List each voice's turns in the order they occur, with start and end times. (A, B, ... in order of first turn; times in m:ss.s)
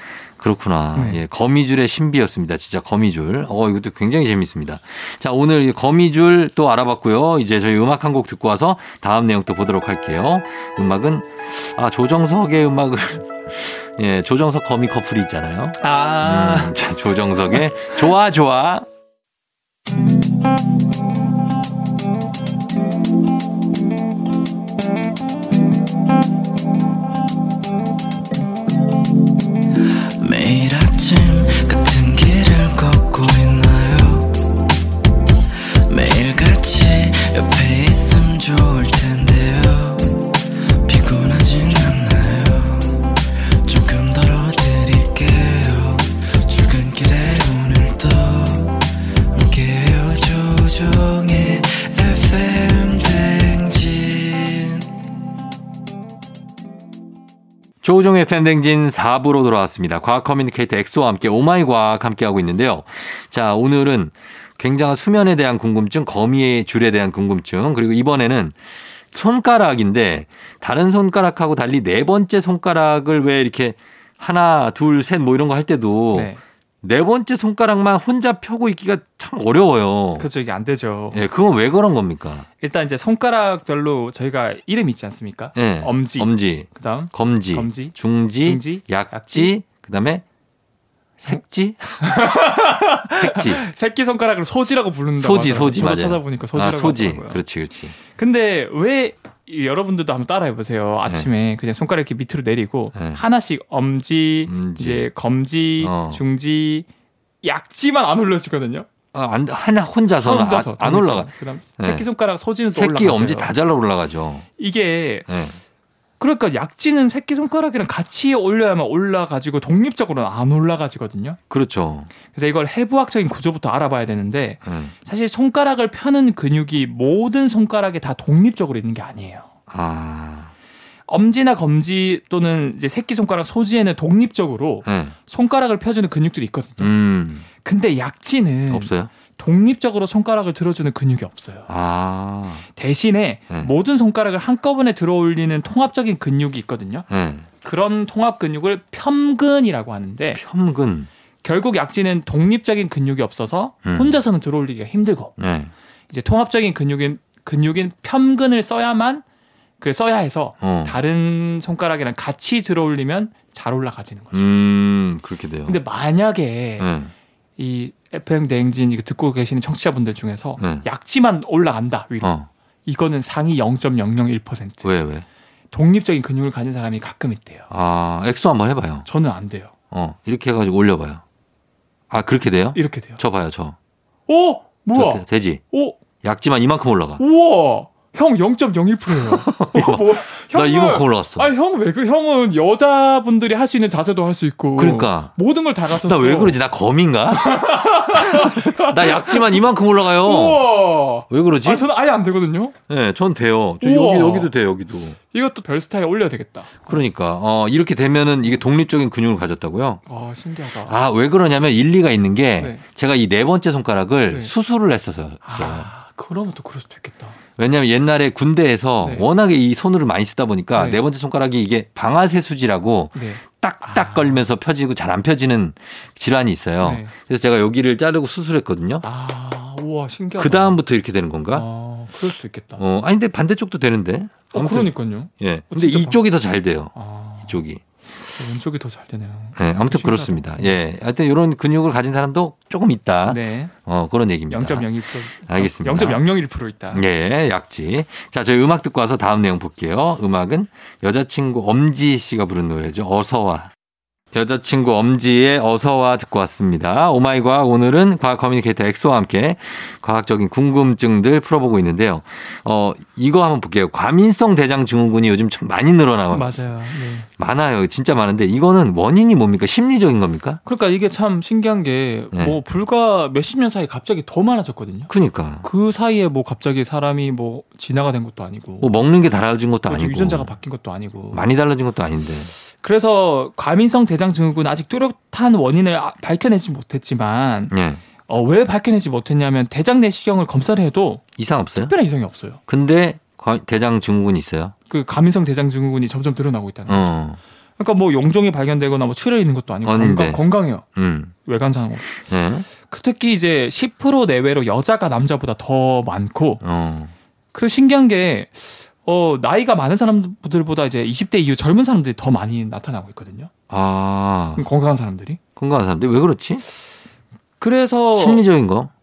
0:00.4-0:18.8 A
0:00.9-0:01.2 B
0:15.8-0:16.8 B
0:17.5-0:18.0 B
0:30.2-0:34.4 C
0:35.8-0:54.9 C
0:57.8-1:08.6 A
1:09.1-1:20.3 A
1:16.1-1:16.4 B
1:20.2-1:21.2 B
1:21.1-1:22.4 A
1:22.6-1:29.5 B
1:25.5-1:30.2 A
1:31.2-1:32.1 A
1:32.0-1:37.4 B
1:33.1-1:33.6 A
1:35.2-1:38.0 A
1:38.0-1:46.9 B
1:42.9-1:43.2 A
1:44.5-1:45.1 A
1:45.8-1:46.2 A
1:47.4-1:48.8 B
1:49.1-1:52.0 A
1:50.2-1:53.5 B
1:52.7-1:54.4 A
1:54.6-1:55.3 B
1:55.3-1:55.6 A
1:56.2-2:01.4 B
2:01.5-2:02.1 A
2:02.2-2:09.5 B
2:04.6-2:04.9 A
2:09.7-2:10.5 A
2:11.1-2:16.9 B
2:14.8-2:15.1 A
2:16.8-2:17.5 A
2:17.6-2:21.7 B
2:18.7-2:19.1 A
2:21.7-2:22.6 A
2:22.7-2:27.1 B
2:27.1-2:27.5 A
2:27.6-2:30.4 B
2:30.3-2:31.1 A
2:31.4-2:35.3 B
2:33.8-2:34.2 A
2:35.4-2:35.7 A
2:36.1-2:39.2 B
2:39.8-2:44.4 B
2:40.6-2:41.0 A
2:44.3-2:45.8 A
2:45.6-2:46.9 B
2:46.8-2:47.1 A
2:47.6-2:54.8 B
2:50.6-2:50.8 A
2:52.2-2:52.5 A
2:54.8-2:55.2 A
2:55.7-2:57.7 B
2:57.7-2:59.0 A
2:59.0-2:59.7 B
2:59.9-3:01.2 A
3:02.1-3:03.8 A
3:02.7-3:03.2 B
3:04.3-3:06.0 B
3:04.9-3:05.6 A
3:06.2-3:07.2 A
3:07.2-3:16.6 B
3:09.1-3:11.5 A
3:14.8-3:15.3 A
3:15.9-3:20.7 A
3:17.3-3:22.7 B
3:21.3-3:21.8 A
3:22.9-3:25.2 A
3:23.8-3:24.5 B
3:25.3-3:27.0 B
3:26.8-3:30.0 A
3:30.0-3:31.0 B
3:30.8-3:35.9 A
3:32.6-3:32.8 B
3:35.4-3:37.4 B
3:37.6-3:49.0 A
3:39.0-3:39.3 B
3:40.7-3:41.0 B
3:43.1-3:44.4 B
3:46.8-3:47.1 B
3:49.0-3:50.8 B
3:50.4-3:51.6 A
3:51.5-3:52.8 B
3:52.8-3:56.9 A
3:54.5-3:56.2 B
3:56.9-3:57.6 B
3:57.4-3:57.8 A
3:58.3-4:00.8 B
3:59.6-4:04.9 A
4:03.3-4:03.7 B
4:04.5-4:07.0 B
4:05.4-4:06.2 A
4:06.9-4:13.7 A
4:14.3-4:26.6 A
4:26.3-4:27.3 B
4:27.4-4:30.6 A
4:30.6-4:35.1 B
4:32.3-4:32.6 A
4:35.1-4:35.7 A
4:35.6-4:38.9 B
4:38.8-4:40.5 A
4:39.9-4:41.5 B
4:41.3-4:42.5 A
4:42.8-4:47.7 B
4:47.7-4:48.0 A
4:48.3-4:51.2 B
4:51.4-4:51.9 A
4:51.8-4:52.6 B
4:52.7-4:54.7 A
4:54.9-4:57.1 B
4:56.9-4:57.4 A
4:57.8-5:00.8 B
4:59.8-5:00.4 A
5:00.9-5:01.3 A
5:01.4-5:02.1 B
5:02.1-5:02.7 A
5:02.8-5:06.6 B
5:06.6-5:07.1 A
5:07.5-5:13.5 B
5:13.7-5:14.6 A
5:14.6-5:15.4 B
5:15.6-5:16.6 A
5:17.6-5:18.4 B
5:18.2-5:18.9 A